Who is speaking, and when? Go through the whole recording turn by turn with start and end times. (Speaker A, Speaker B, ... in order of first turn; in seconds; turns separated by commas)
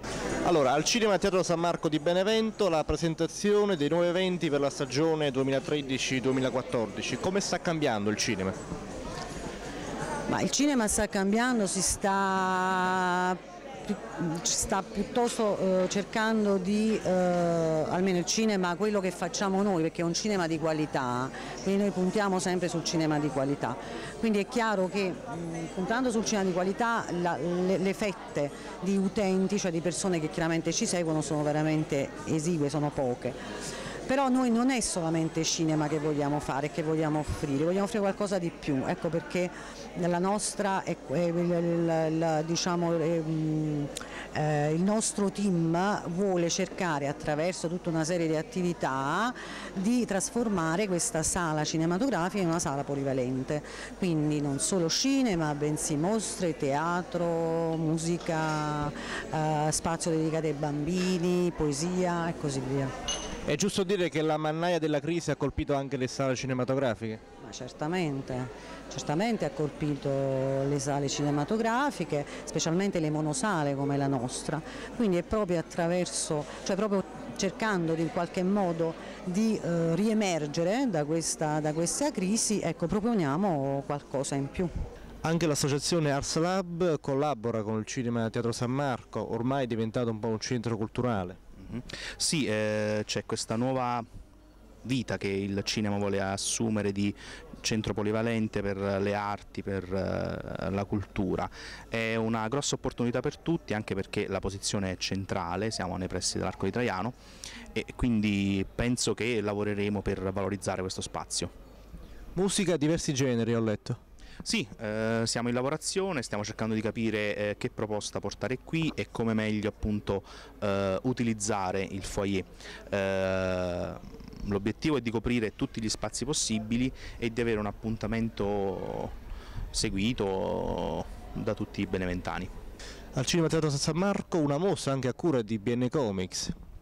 Speaker A: 0.4-8.6, Speaker B: 10.3-33.4, Speaker B: 34.1-62.9, Speaker A: 63.5-67.2, Speaker B: 67.4-84.7, Speaker A: 85.2-91.4, Speaker C: 91.6-94.0, Speaker C: 94.8-107.2, Speaker C: 107.7-111.5, Speaker A: 112.3-114.0, Speaker C: 114.4-129.2, Speaker C: 129.7-132.5, Speaker A: 133.1-136.5